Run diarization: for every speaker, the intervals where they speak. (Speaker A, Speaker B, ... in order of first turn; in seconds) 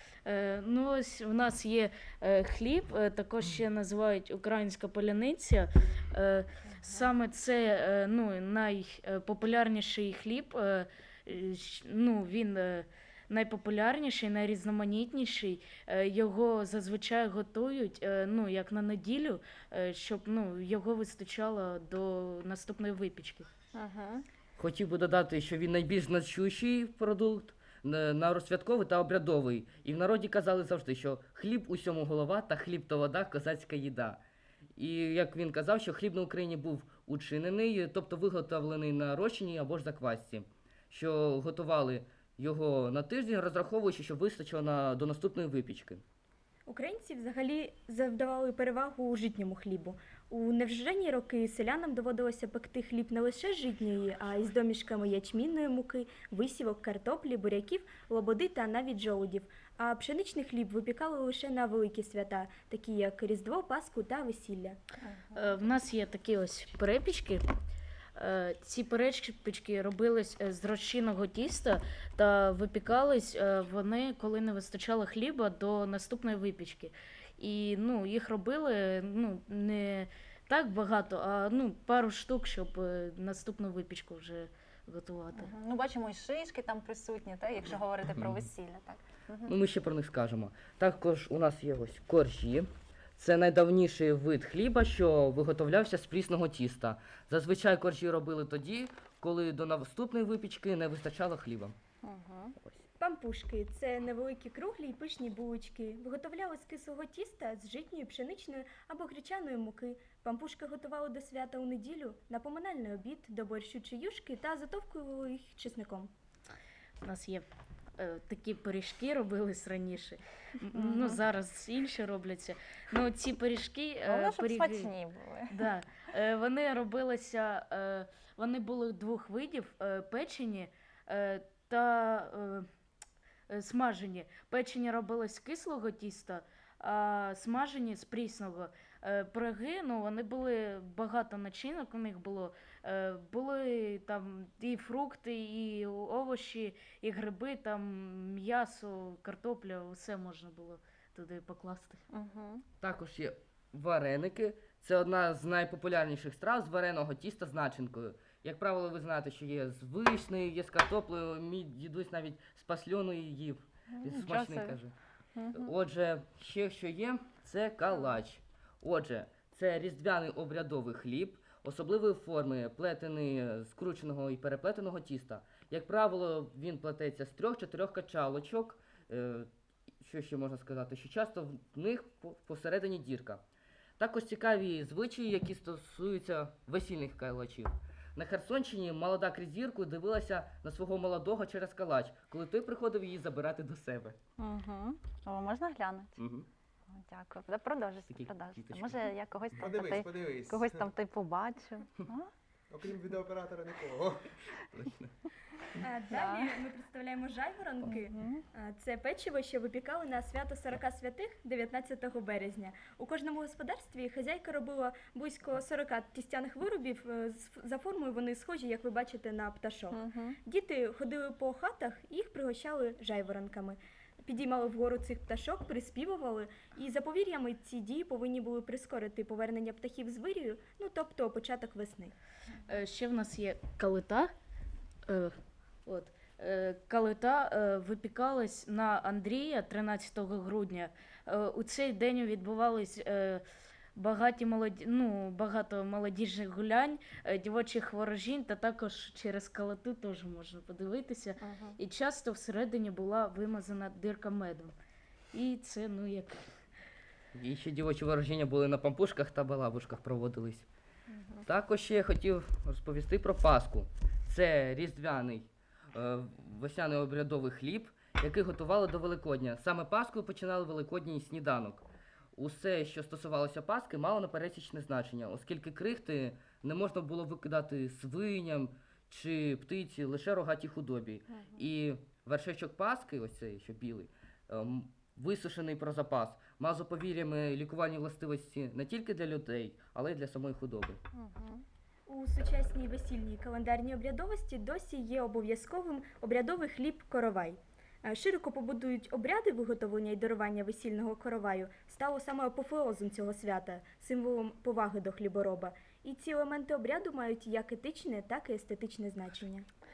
Speaker A: 0.2-23.5, 65.3-67.5, 68.2-85.5, 117.0-117.5, 118.0-124.9, 125.5-132.7, 133.5-152.0, 232.7-234.3, 235.1-235.3, 235.8-243.4, 243.9-254.7, 255.3-256.4
Speaker B: 23.7-24.2, 65.0-65.5, 85.3-89.5, 102.0-102.5, 120.7-121.2, 124.0-125.7, 152.1-152.6, 163.9-164.8, 165.3-165.7, 194.4-196.2, 196.9-202.3, 206.1-206.6, 207.8-208.4, 219.9-220.4, 251.4-251.8, 261.1-261.4, 281.3-281.6, 291.1-291.6
Speaker C: 24.6-34.2, 34.8-46.0, 89.5-101.8, 152.8-164.9, 165.5-179.5, 180.0-183.4, 184.0-194.2, 196.2-196.5, 198.1-199.1, 204.6-205.1, 257.3-260.7, 261.4-291.0
Speaker D: 46.7-64.8, 103.0-116.1, 205.8-232.1, 292.1-309.6
Speaker E: 199.6-200.9, 202.7-204.3